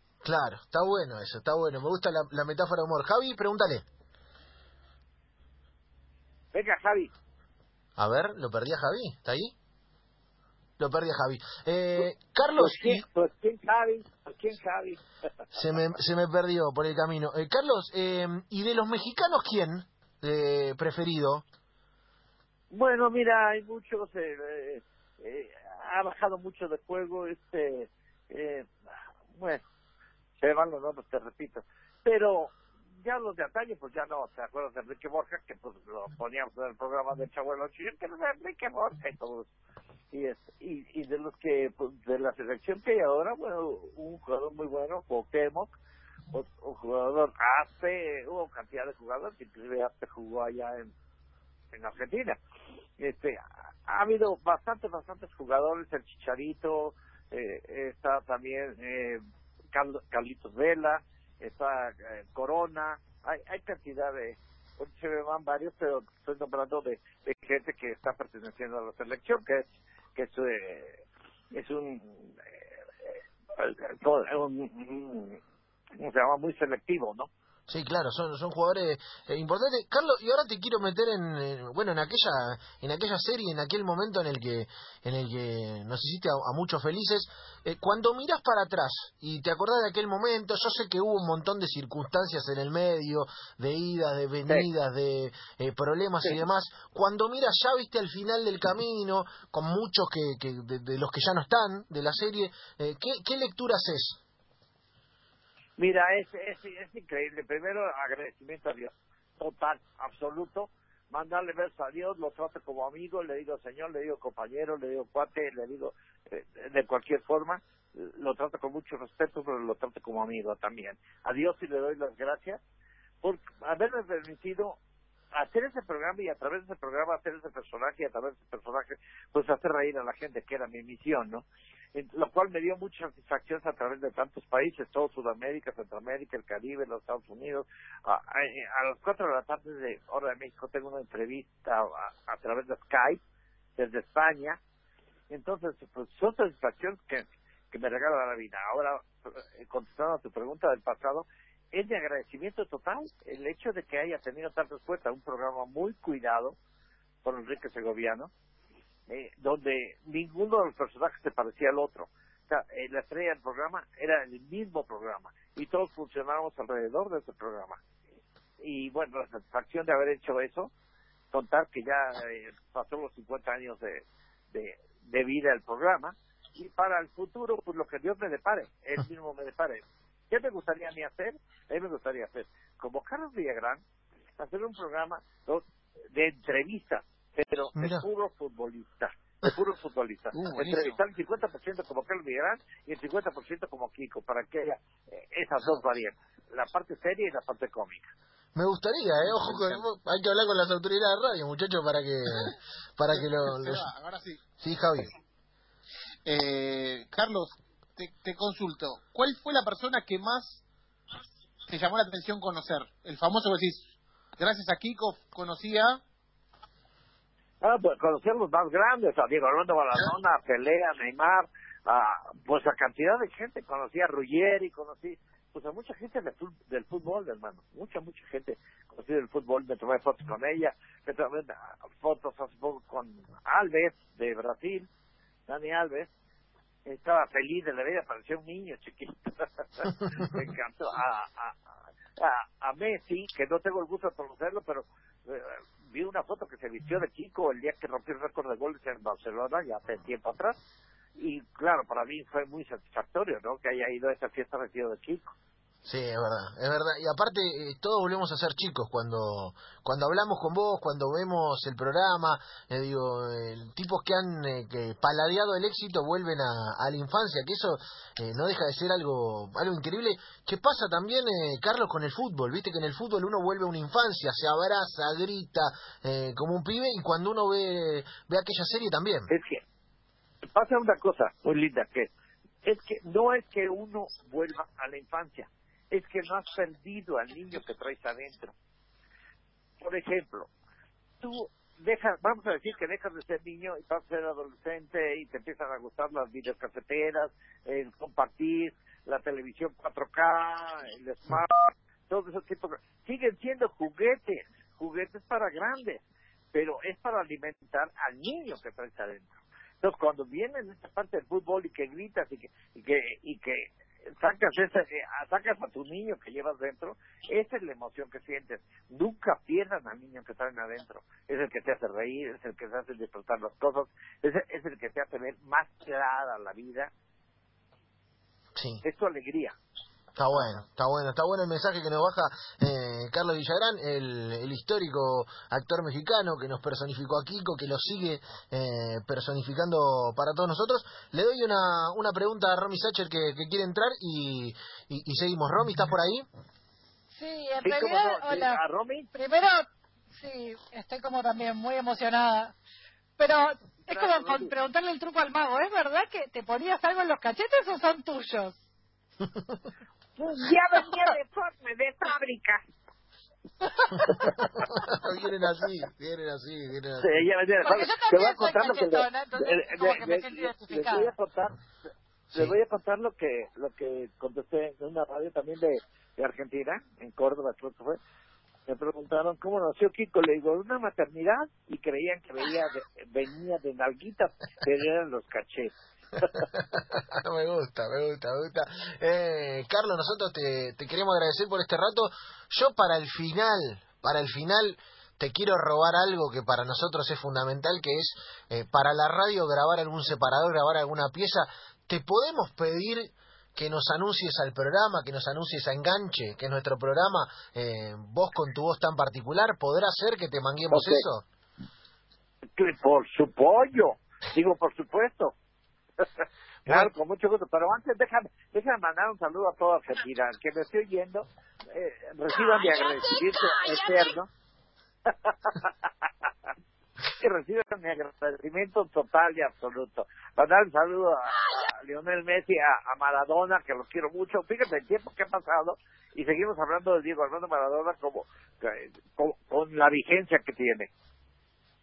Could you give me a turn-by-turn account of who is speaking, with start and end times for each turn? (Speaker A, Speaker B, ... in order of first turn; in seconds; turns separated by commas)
Speaker A: 0.2-3.8, Speaker B: 6.5-7.1, Speaker A: 8.0-9.5, Speaker A: 10.8-13.0, Speaker B: 12.6-15.0, Speaker A: 15.5-21.4, Speaker B: 22.7-28.7, Speaker B: 29.4-29.6, Speaker B: 30.4-39.5, Speaker B: 40.1-45.7, Speaker B: 46.3-50.9, Speaker B: 51.7-52.4, Speaker B: 53.0-59.2, Speaker B: 59.7-72.4, Speaker B: 73.5-75.4, Speaker B: 76.0-77.3, Speaker A: 77.7-104.2, Speaker B: 105.8-122.6, Speaker B: 123.2-124.8, Speaker B: 125.3-143.2, Speaker B: 143.8-144.6, Speaker B: 145.3-156.6, Speaker B: 157.2-158.3, Speaker B: 159.1-167.8, Speaker B: 168.6-170.7, Speaker B: 171.3-183.8, Speaker B: 184.4-198.1, Speaker A: 187.8-188.1, Speaker C: 190.3-190.9, Speaker D: 190.3-191.0, Speaker A: 198.5-203.8, Speaker D: 199.2-199.8, Speaker D: 203.1-204.4, Speaker A: 204.6-205.1, Speaker D: 206.2-210.6, Speaker D: 211.7-216.0, Speaker B: 217.6-234.9, Speaker B: 235.5-236.1, Speaker B: 236.8-241.5, Speaker B: 242.2-250.6, Speaker B: 251.2-255.3, Speaker A: 255.8-279.3, Speaker B: 279.3-279.6, Speaker B: 280.5-282.1, Speaker B: 282.6-288.5, Speaker B: 289.8-290.5, Speaker B: 291.2-306.0, Speaker B: 306.5-326.9, Speaker A: 328.5-328.8, Speaker B: 328.8-329.5, Speaker A: 330.1-346.2, Speaker E: 347.1-348.6, Speaker B: 347.7-349.0, Speaker C: 347.9-348.5, Speaker E: 349.1-352.5, Speaker E: 353.2-358.5, Speaker C: 353.9-354.5, Speaker A: 359.2-359.6, Speaker C: 360.4-362.6, Speaker E: 360.7-361.0, Speaker E: 363.6-364.3, Speaker A: 363.9-367.2, Speaker B: 367.0-369.0, Speaker E: 367.6-371.1, Speaker C: 367.7-368.7, Speaker C: 369.6-370.9, Speaker B: 370.8-371.5, Speaker B: 372.3-378.0, Speaker B: 378.7-385.7, Speaker A: 386.3-411.2, Speaker B: 412.6-415.3, Speaker B: 416.0-424.2, Speaker C: 422.3-424.1, Speaker B: 427.2-431.3, Speaker B: 431.8-440.9